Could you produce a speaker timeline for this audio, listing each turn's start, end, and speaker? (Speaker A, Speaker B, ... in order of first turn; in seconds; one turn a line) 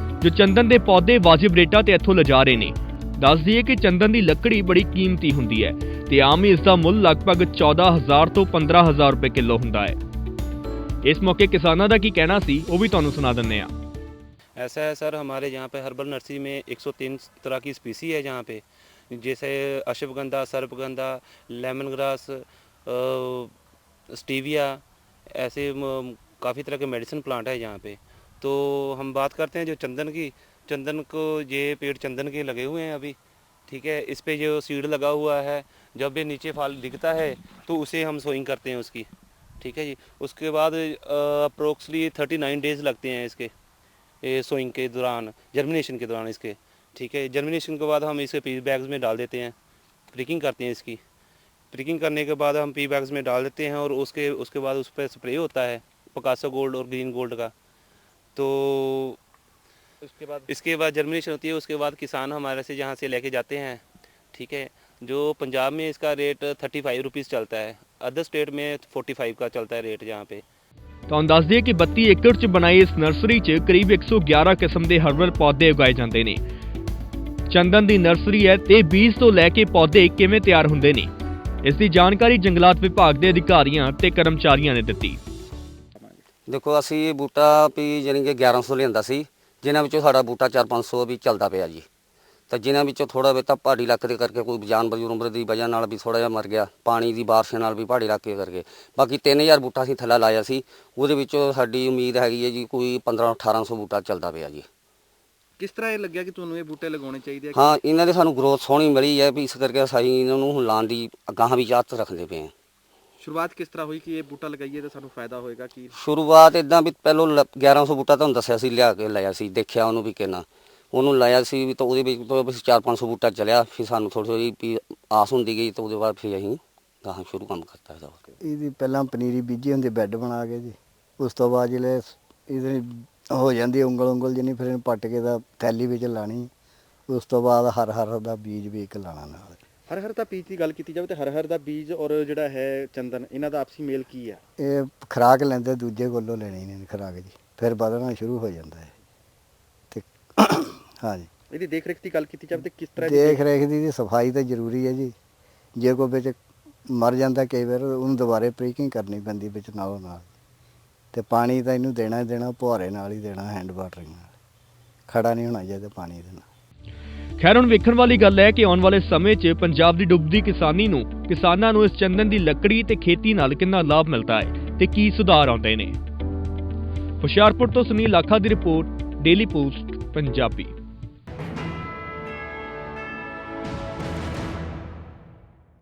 Speaker A: 0.2-10.0
Speaker A: 11.0-13.7
Speaker B: 14.6-23.5
Speaker B: 24.1-24.8
Speaker B: 25.3-33.2
Speaker B: 33.7-39.1
Speaker B: 39.6-43.5
Speaker B: 44.2-49.5
Speaker B: 50.1-51.0
Speaker B: 51.7-57.5
Speaker B: 58.4-59.2
Speaker B: 60.4-63.8
Speaker B: 64.3-70.4
Speaker A: 71.1-76.4
Speaker A: 77.5-81.1
Speaker A: 81.6-85.2
Speaker C: 85.9-86.2
Speaker D: 86.5-91.8
Speaker D: 92.5-104.7
Speaker C: 105.6-107.6
Speaker D: 107.5-112.5
Speaker C: 113.2-115.9
Speaker D: 115.9-128.2
Speaker E: 128.4-136.5
Speaker E: 137.1-139.6
Speaker C: 139.9-144.4
Speaker E: 144.6-148.9
Speaker E: 149.9-151.3
Speaker C: 151.5-153.4
Speaker E: 153.0-155.1
Speaker E: 155.8-156.4
Speaker E: 156.9-160.3
Speaker E: 161.1-164.3
Speaker E: 165.1-166.4
Speaker A: 167.4-176.0
Speaker A: 177.2-180.7